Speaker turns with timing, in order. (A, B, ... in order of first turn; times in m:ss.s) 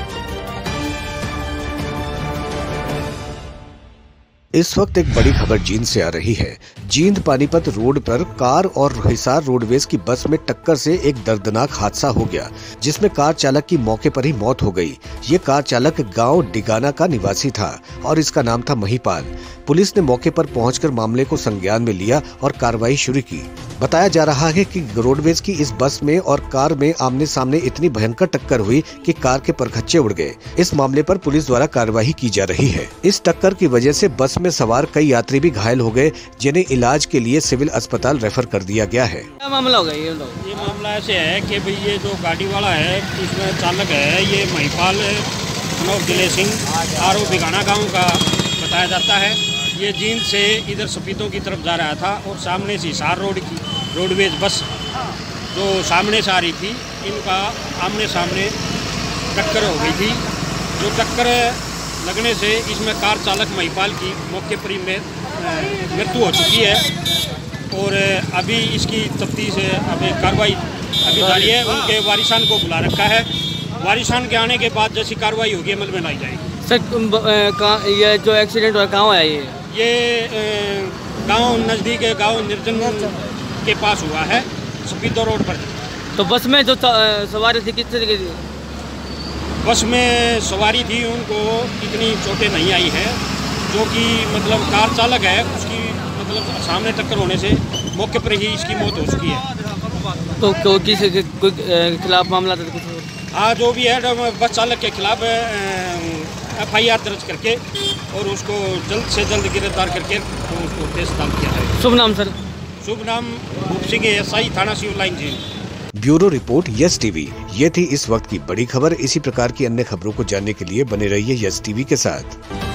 0:04.5-0:39.3 A
0:39.4-0:40.4 B
0:40.4-0:54.7 C
0:55.5-0:58.6 C
0:59.3-1:06.9 C
1:07.7-1:16.6 C
1:16.6-1:19.6 B
1:19.7-1:25.8 C
1:26.1-1:28.4 B
1:29.6-1:39.5 C
1:40.4-1:43.1 B
1:43.3-1:51.8 C
1:51.8-1:52.3 B
1:52.8-1:55.5 C
1:56.0-2:02.4 A